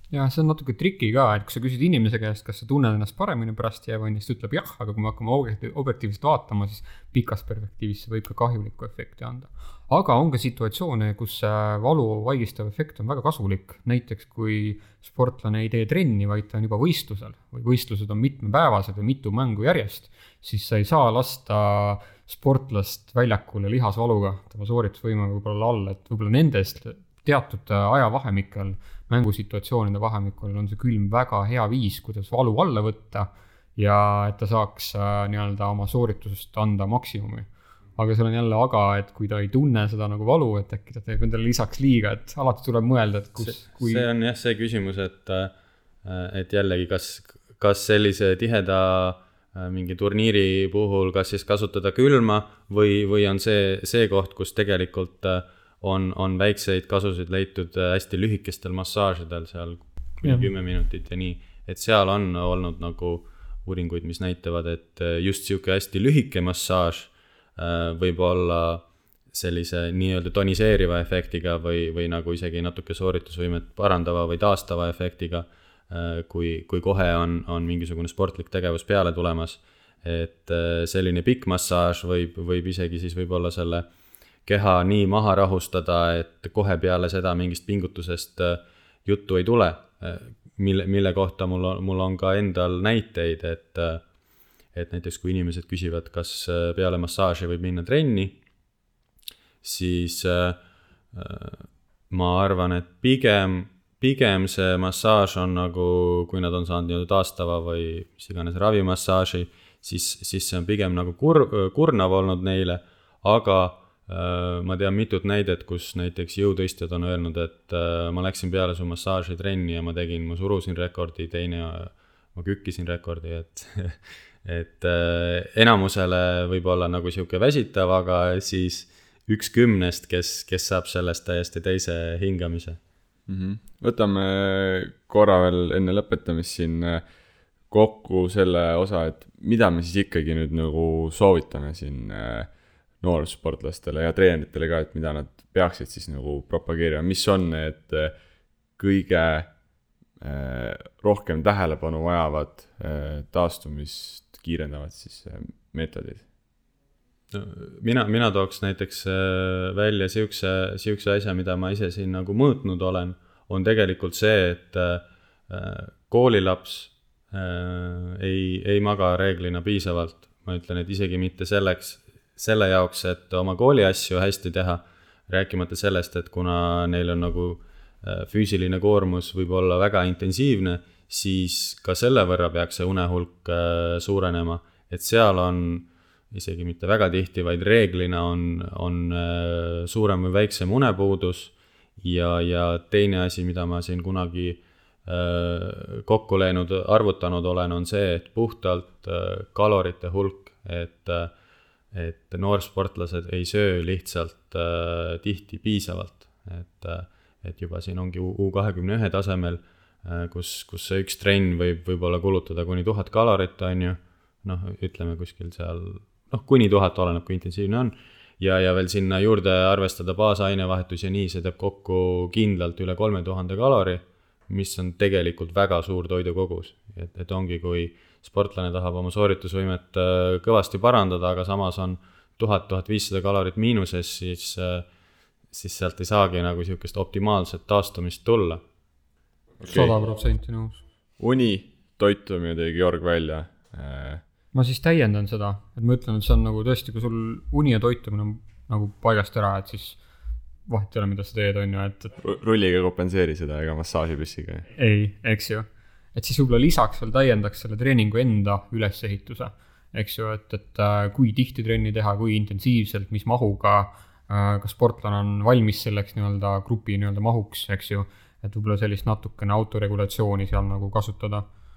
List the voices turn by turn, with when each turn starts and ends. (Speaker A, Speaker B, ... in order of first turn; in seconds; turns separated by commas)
Speaker A: 0.1-44.1, Speaker B: 43.4-45.5, Speaker B: 46.0-83.9, Speaker A: 60.2-60.5, Speaker B: 84.5-94.0, Speaker B: 94.7-98.4, Speaker B: 99.6-100.6, Speaker B: 101.1-132.8, Speaker C: 133.3-137.0, Speaker C: 137.7-142.5, Speaker C: 143.0-148.1, Speaker C: 148.8-149.5, Speaker C: 150.2-156.2, Speaker B: 157.3-201.3, Speaker B: 201.9-234.9, Speaker B: 235.5-238.6, Speaker C: 239.6-239.9, Speaker A: 239.7-240.8, Speaker C: 241.2-244.2, Speaker A: 244.5-250.0, Speaker A: 250.7-252.2, Speaker C: 252.2-254.7, Speaker A: 254.8-271.4